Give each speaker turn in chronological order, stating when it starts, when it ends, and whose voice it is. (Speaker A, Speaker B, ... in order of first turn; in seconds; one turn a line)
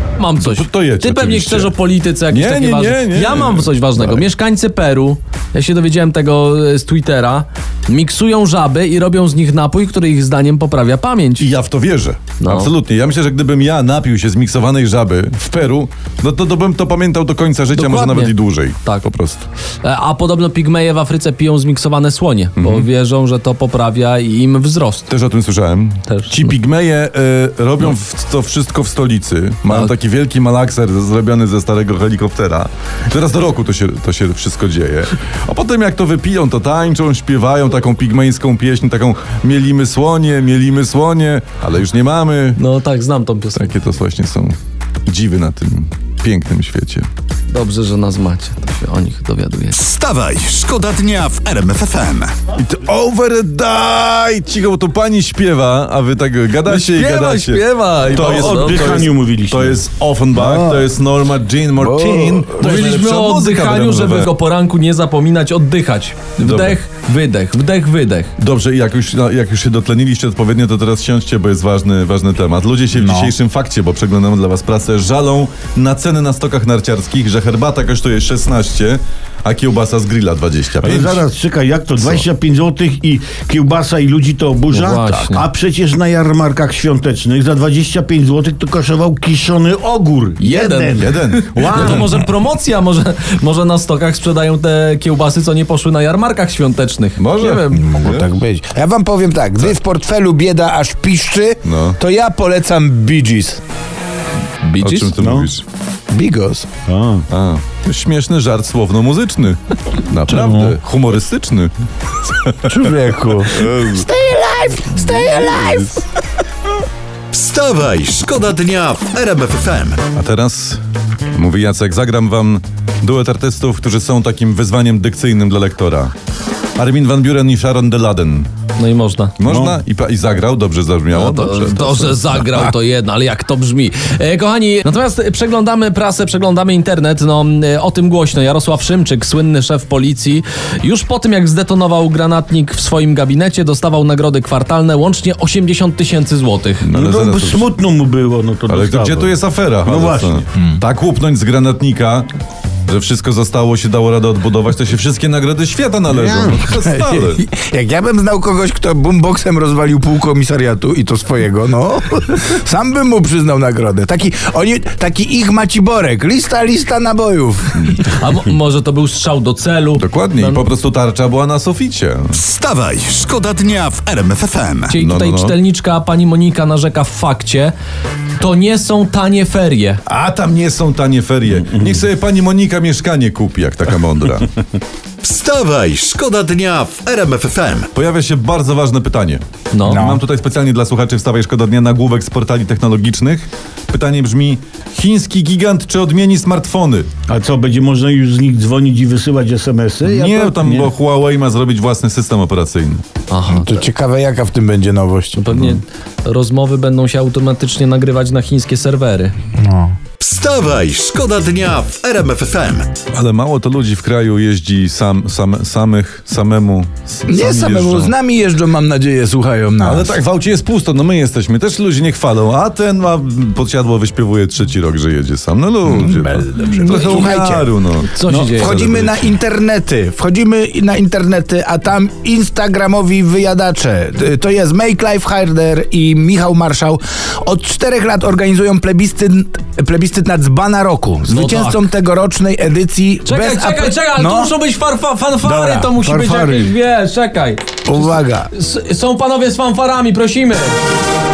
Speaker A: 0.2-11.5
Speaker B: 0.4-1.8
Speaker B: 2.3-4.2
Speaker B: 11.4-19.5
Speaker A: 12.4-12.7
Speaker A: 17.7-19.1
Speaker A: 19.8-25.1
Speaker B: 22.6-22.9
Speaker B: 25.1-42.6
Speaker A: 26.1-26.3
Speaker A: 42.5-43.7
Speaker B: 43.5-44.5
Speaker B: 45.1-47.1
Speaker A: 47.5-49.8
Speaker C: 49.7-52.3
Speaker B: 52.5-64.3
Speaker A: 56.7-59.0
Speaker D: 58.0-59.8
Speaker E: 60.5-60.8
Speaker E: 61.8-62.6
Speaker A: 62.5-68.3
Speaker B: 66.4-66.8
Speaker B: 68.4-81.2
Speaker E: 73.0-73.3
Speaker D: 80.8-92.2
Speaker A: 84.7-85.4
Speaker A: 90.4-97.9
Speaker B: 91.0-92.1
Speaker B: 97.2-98.3
Speaker E: 97.7-103.6
Speaker B: 101.6-102.0
Speaker A: 104.6-105.1
Speaker B: 104.8-105.6
Speaker D: 105.2-105.5
Speaker E: 106.1-106.7
Speaker D: 106.8-107.2
Speaker B: 107.3-114.0
Speaker E: 112.7-116.0
Speaker B: 115.1-115.8
Speaker C: 117.3-120.1
Speaker B: 120.1-120.8
Speaker B: 121.3-126.1
Speaker B: 126.8-128.5
Speaker A: 128.8-129.3
Speaker B: 129.4-132.7
Speaker D: 129.4-129.8
Speaker A: 131.1-146.9
Speaker B: 146.8-147.7
Speaker D: 146.9-150.4
Speaker B: 148.7-152.3
Speaker B: 152.9-157.4
Speaker D: 156.1-156.8
Speaker E: 156.8-168.1
Speaker A: 168.0-170.6
Speaker B: 170.0-172.4
Speaker C: 172.3-174.9
Speaker A: 174.9-177.7
Speaker B: 175.0-175.6
Speaker A: 178.4-180.0
Speaker B: 180.1-184.5
Speaker C: 185.2-187.9
Speaker B: 187.9-197.1
Speaker A: 189.7-190.1
Speaker D: 197.3-200.9
Speaker B: 200.0-203.0
Speaker A: 203.3-203.8
Speaker E: 203.7-205.4
Speaker A: 205.4-209.3
Speaker B: 205.5-205.8
Speaker E: 209.6-209.9
Speaker C: 210.2-212.9
Speaker B: 213.1-218.1
Speaker E: 217.3-220.2
Speaker B: 219.8-229.3
Speaker E: 225.9-227.7
Speaker A: 228.1-228.8
Speaker E: 228.3-244.5
Speaker A: 241.3-241.9
Speaker A: 243.2-250.8
Speaker E: 245.5-246.7
Speaker E: 247.9-248.5